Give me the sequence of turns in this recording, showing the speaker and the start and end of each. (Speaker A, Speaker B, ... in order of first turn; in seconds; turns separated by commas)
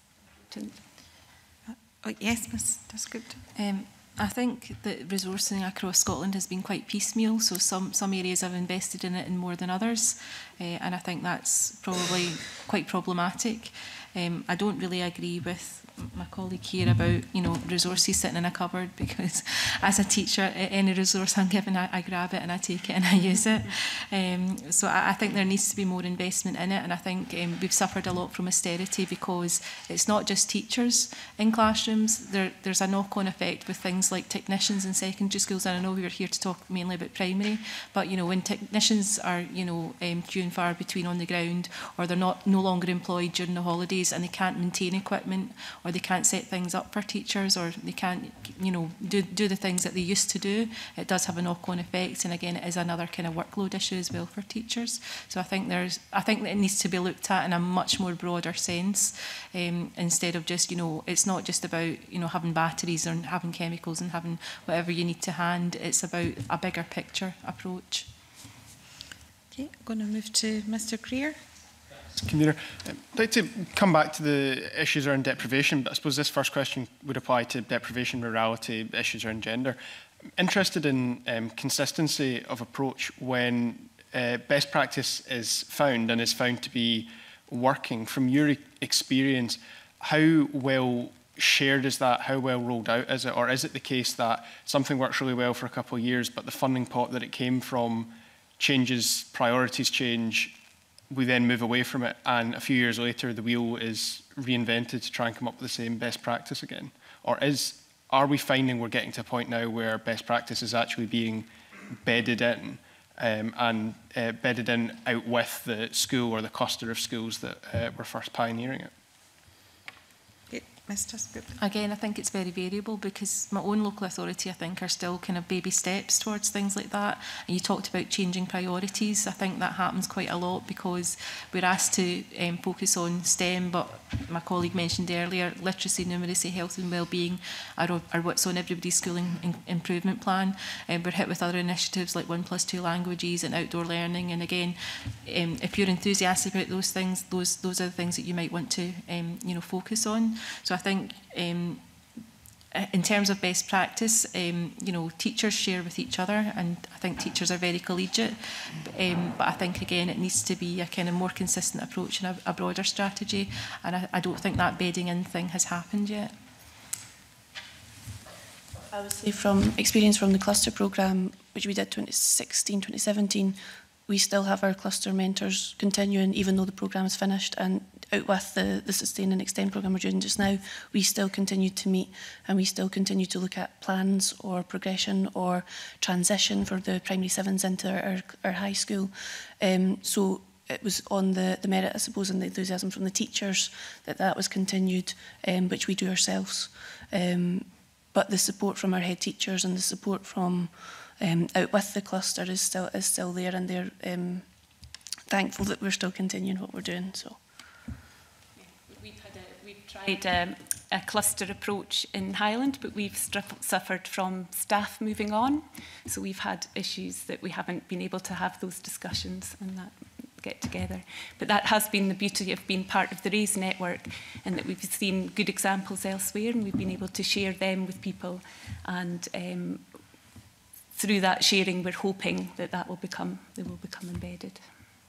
Speaker A: 0.4-0.8, Speaker B: 1.6-3.4, Speaker C: 3.5-68.1, Speaker B: 69.5-71.4, Speaker D: 72.2-79.8, Speaker D: 80.4-100.6, Speaker D: 101.1-118.9, Speaker B: 120.5-121.5, Speaker C: 121.6-151.8, Speaker C: 152.7-166.3, Speaker E: 168.9-204.5, Speaker E: 205.3-207.4, Speaker A: 208.8-229.9, Speaker A: 230.9-234.6